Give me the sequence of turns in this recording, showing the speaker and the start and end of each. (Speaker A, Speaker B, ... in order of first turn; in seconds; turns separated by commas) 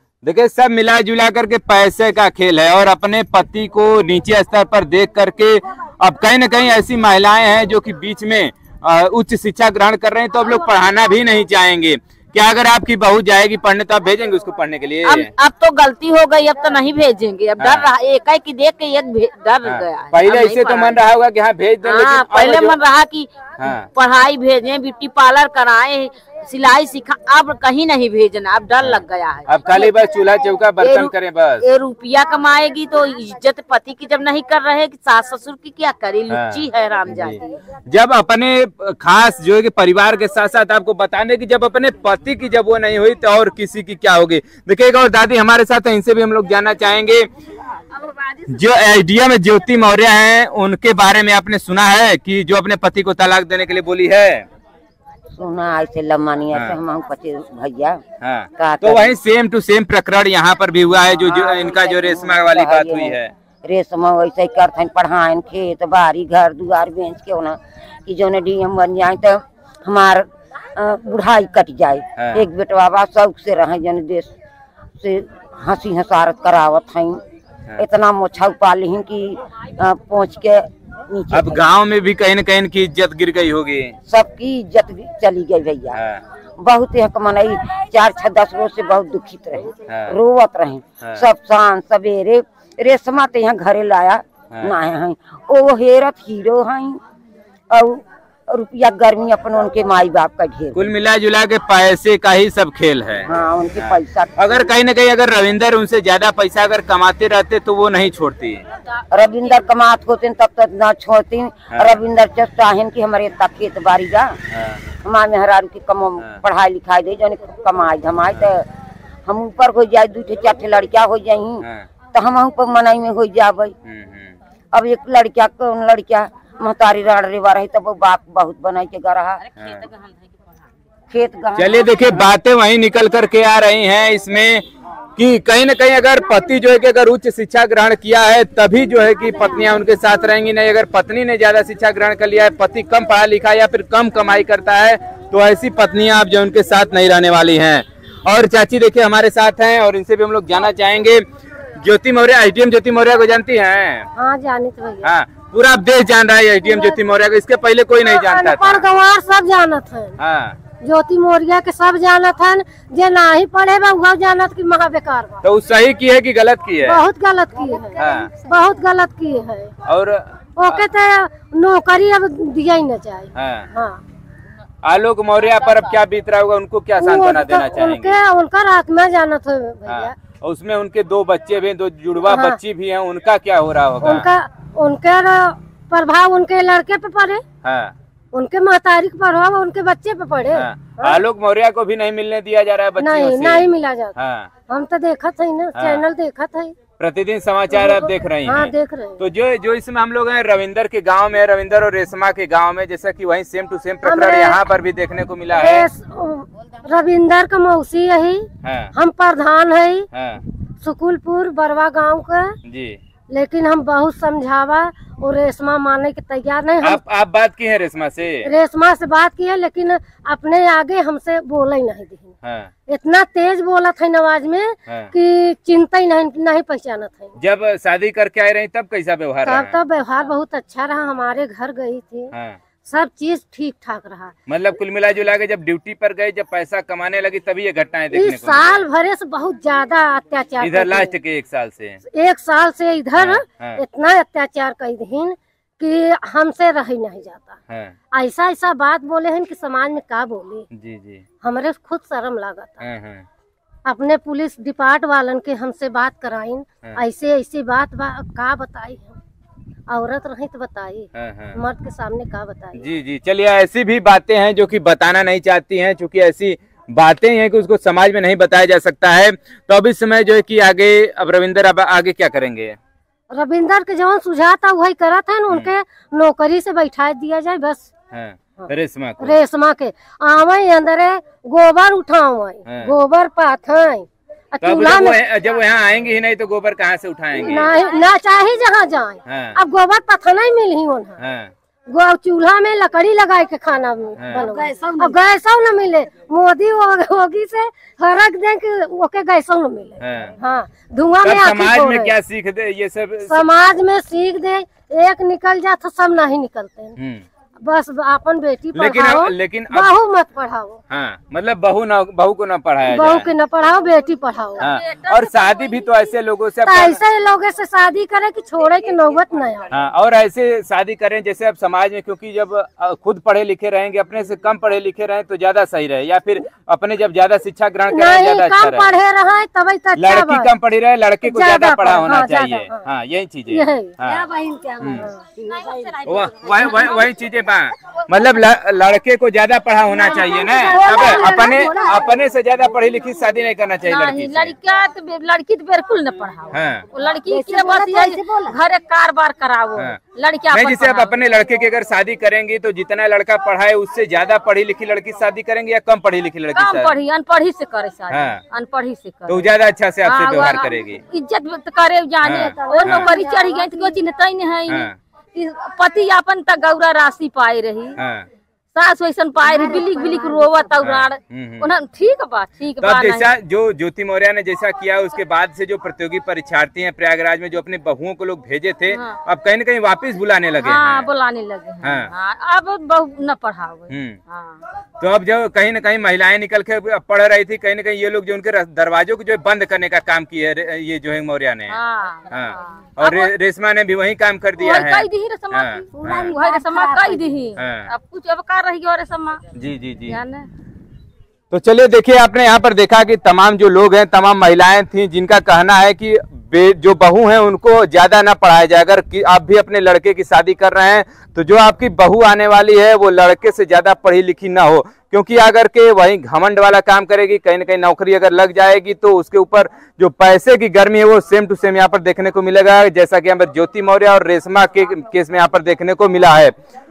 Speaker A: 0.2-15.3, Speaker B: 15.0-21.0, Speaker A: 17.6-17.9, Speaker A: 19.6-22.8, Speaker B: 21.8-30.0, Speaker A: 23.6-23.9, Speaker A: 28.8-31.6, Speaker B: 30.8-37.4, Speaker A: 36.3-47.2, Speaker A: 48.5-54.5, Speaker C: 55.4-58.0, Speaker A: 58.2-63.3, Speaker C: 58.6-59.1, Speaker C: 61.1-74.3, Speaker A: 72.2-72.4, Speaker C: 75.0-77.2, Speaker C: 77.8-81.7, Speaker A: 81.3-84.0, Speaker C: 84.1-86.0, Speaker A: 85.9-86.2, Speaker C: 86.6-97.0, Speaker A: 89.9-90.1, Speaker C: 97.7-100.9, Speaker A: 100.7-108.6, Speaker C: 103.2-104.7, Speaker C: 109.1-114.4, Speaker A: 111.7-112.0, Speaker A: 114.5-114.8, Speaker C: 115.0-118.7, Speaker C: 119.2-123.7, Speaker A: 121.6-121.9, Speaker A: 123.8-124.3, Speaker C: 124.7-129.4, Speaker A: 129.6-129.8, Speaker C: 131.1-132.3, Speaker A: 131.6-134.6, Speaker A: 135.2-151.2, Speaker A: 151.8-154.1, Speaker D: 154.2-155.1, Speaker A: 155.0-158.8, Speaker D: 156.6-157.0, Speaker D: 158.0-160.2, Speaker A: 160.2-160.6, Speaker D: 160.8-165.4, Speaker A: 165.4-167.0, Speaker D: 166.8-169.7, Speaker A: 167.9-168.3, Speaker A: 169.8-170.8, Speaker D: 170.6-174.0, Speaker A: 173.3-173.7, Speaker A: 174.8-178.2, Speaker D: 177.0-180.1, Speaker A: 179.9-184.2, Speaker D: 182.2-182.6, Speaker D: 184.0-187.4, Speaker A: 187.6-187.9, Speaker D: 188.3-191.2, Speaker A: 190.6-194.5, Speaker D: 193.0-194.1, Speaker D: 194.7-196.7, Speaker A: 195.7-196.0, Speaker A: 197.0-205.9, Speaker D: 197.7-199.2, Speaker D: 204.0-204.6, Speaker D: 205.5-210.1, Speaker A: 208.6-208.9, Speaker A: 210.1-210.4, Speaker D: 210.8-212.5, Speaker A: 212.6-213.0, Speaker D: 213.3-217.0, Speaker A: 216.8-218.5, Speaker D: 218.4-222.3, Speaker A: 222.4-222.7, Speaker D: 222.9-227.3, Speaker A: 227.4-229.8, Speaker D: 229.4-232.3, Speaker A: 232.3-232.6, Speaker D: 232.9-234.3, Speaker A: 234.5-238.8, Speaker D: 238.1-241.1, Speaker A: 240.6-242.0, Speaker D: 242.1-247.6, Speaker A: 243.2-243.8, Speaker D: 248.1-250.7, Speaker A: 250.7-251.2, Speaker D: 251.4-252.8, Speaker A: 252.8-253.2, Speaker D: 253.8-259.2, Speaker D: 259.9-262.8, Speaker A: 261.1-261.5, Speaker A: 262.8-272.8, Speaker D: 273.3-277.9, Speaker A: 278.1-279.4, Speaker D: 279.2-285.2, Speaker A: 282.6-282.9, Speaker A: 284.6-287.7, Speaker D: 287.3-291.2, Speaker A: 289.2-289.6, Speaker A: 291.2-291.5, Speaker D: 291.9-302.1, Speaker A: 294.2-294.4, Speaker B: 294.3-295.2, Speaker A: 300.0-300.3, Speaker A: 301.2-303.4, Speaker D: 303.3-306.9, Speaker A: 307.0-307.2, Speaker D: 307.6-310.8, Speaker A: 308.7-309.9, Speaker A: 310.9-313.3, Speaker D: 312.8-314.6, Speaker E: 314.6-315.9, Speaker A: 314.6-317.0, Speaker D: 316.6-319.7, Speaker A: 319.7-328.9, Speaker D: 327.9-330.5, Speaker A: 329.9-334.2, Speaker D: 331.2-332.8, Speaker D: 333.5-334.0, Speaker B: 334.1-336.9, Speaker A: 334.8-335.1, Speaker D: 334.9-335.2, Speaker A: 336.0-344.5, Speaker D: 339.9-341.9, Speaker B: 340.2-342.2, Speaker E: 343.8-351.1, Speaker A: 346.5-346.8, Speaker B: 347.3-348.6, Speaker A: 350.5-357.0, Speaker E: 356.5-359.5, Speaker A: 358.1-358.4, Speaker A: 359.3-361.0, Speaker E: 360.0-368.0, Speaker A: 362.2-363.1, Speaker D: 362.7-364.0, Speaker A: 364.7-364.9, Speaker A: 368.0-368.3, Speaker E: 368.7-373.3, Speaker B: 369.4-370.7, Speaker A: 370.8-371.7, Speaker A: 372.8-381.0, Speaker E: 378.9-379.2, Speaker E: 380.6-384.6, Speaker A: 381.8-382.1, Speaker A: 383.9-384.2, Speaker A: 385.0-391.8, Speaker E: 391.7-393.3, Speaker A: 392.3-396.3, Speaker E: 394.6-399.4, Speaker B: 396.0-397.3, Speaker A: 397.6-397.9, Speaker A: 399.5-400.2, Speaker E: 400.1-400.5, Speaker A: 401.5-426.5